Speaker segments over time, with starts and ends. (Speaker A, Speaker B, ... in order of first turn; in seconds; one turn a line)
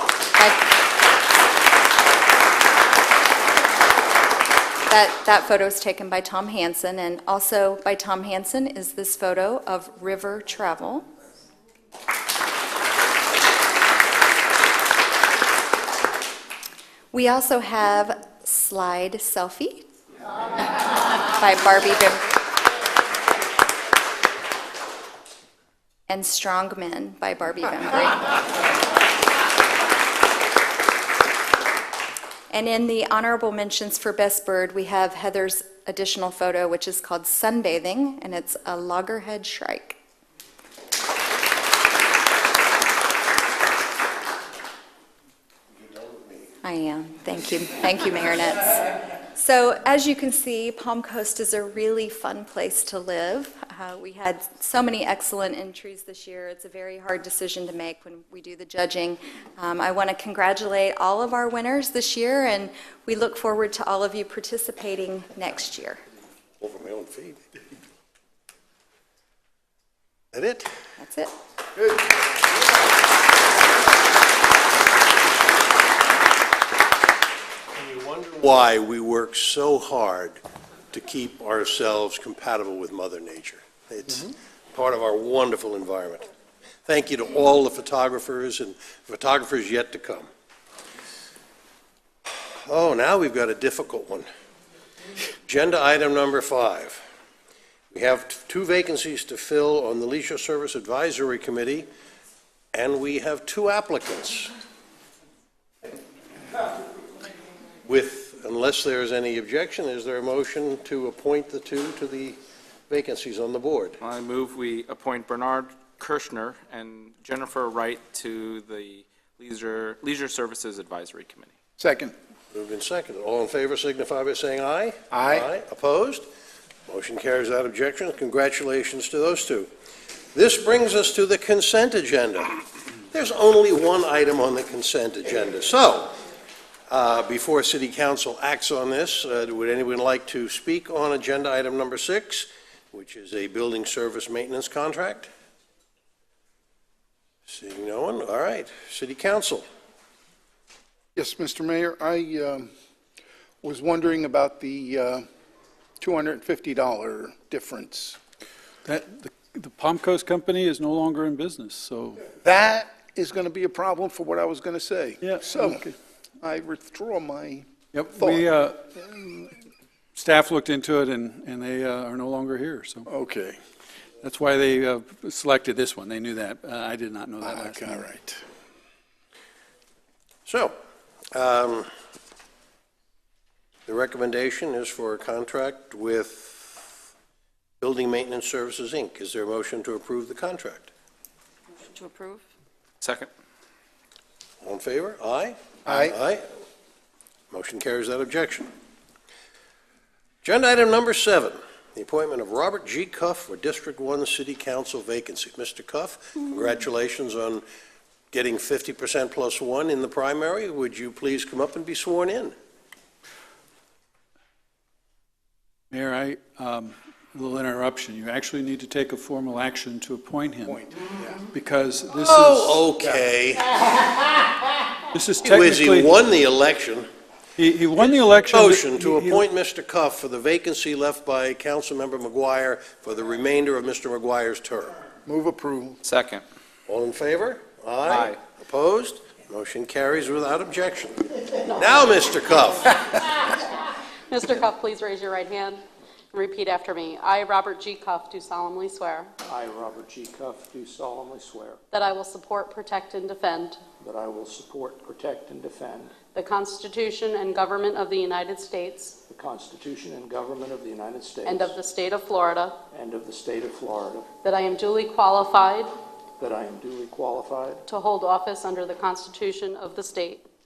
Speaker A: 0.3-0.7
Speaker A: 4.9-11.1
Speaker A: 17.1-19.9
Speaker A: 21.3-22.2
Speaker A: 26.1-28.3
Speaker A: 32.5-40.0
Speaker B: 45.9-46.5
Speaker A: 46.6-66.0
Speaker B: 66.6-67.4
Speaker B: 70.3-70.7
Speaker A: 71.0-71.3
Speaker B: 77.7-86.3
Speaker B: 86.8-90.3
Speaker B: 92.3-94.3
Speaker B: 95.4-97.1
Speaker B: 97.9-101.9
Speaker B: 102.7-104.5
Speaker B: 107.8-114.0
Speaker C: 114.0-121.5
Speaker D: 121.8-122.1
Speaker B: 122.5-126.2
Speaker D: 125.1-125.5
Speaker B: 126.9-129.7
Speaker B: 130.3-136.2
Speaker B: 136.9-145.3
Speaker B: 147.5-149.6
Speaker D: 151.1-152.7
Speaker D: 153.6-155.2
Speaker D: 156.0-158.2
Speaker E: 158.8-162.2
Speaker D: 162.4-165.8
Speaker E: 165.2-165.9
Speaker D: 166.4-168.5
Speaker E: 167.9-169.6
Speaker E: 170.1-173.1
Speaker D: 173.1-173.6
Speaker E: 174.2-178.1
Speaker D: 177.4-178.4
Speaker B: 180.4-180.7
Speaker B: 181.3-181.9
Speaker B: 183.9-186.9
Speaker B: 187.8-190.9
Speaker C: 191.8-192.4
Speaker C: 193.0-193.3
Speaker B: 194.6-196.5
Speaker D: 195.8-196.1
Speaker B: 197.5-198.7
Speaker B: 200.4-207.6
Speaker B: 208.3-212.5
Speaker E: 215.9-220.9
Speaker D: 220.6-221.3
Speaker E: 221.5-222.9
Speaker B: 222.1-223.8
Speaker E: 225.1-226.1
Speaker B: 225.4-227.1
Speaker E: 227.6-229.4
Speaker B: 228.5-235.0
Speaker D: 235.2-236.0
Speaker C: 236.0-236.4
Speaker B: 236.9-242.9
Speaker C: 238.1-238.4
Speaker F: 244.3-249.3
Speaker G: 249.4-251.8
Speaker F: 251.9-253.8
Speaker G: 254.0-256.2
Speaker F: 256.3-259.2
Speaker G: 259.3-261.8
Speaker F: 261.4-262.8
Speaker G: 262.9-264.3
Speaker F: 264.4-265.9
Speaker G: 266.4-267.8
Speaker F: 267.9-270.4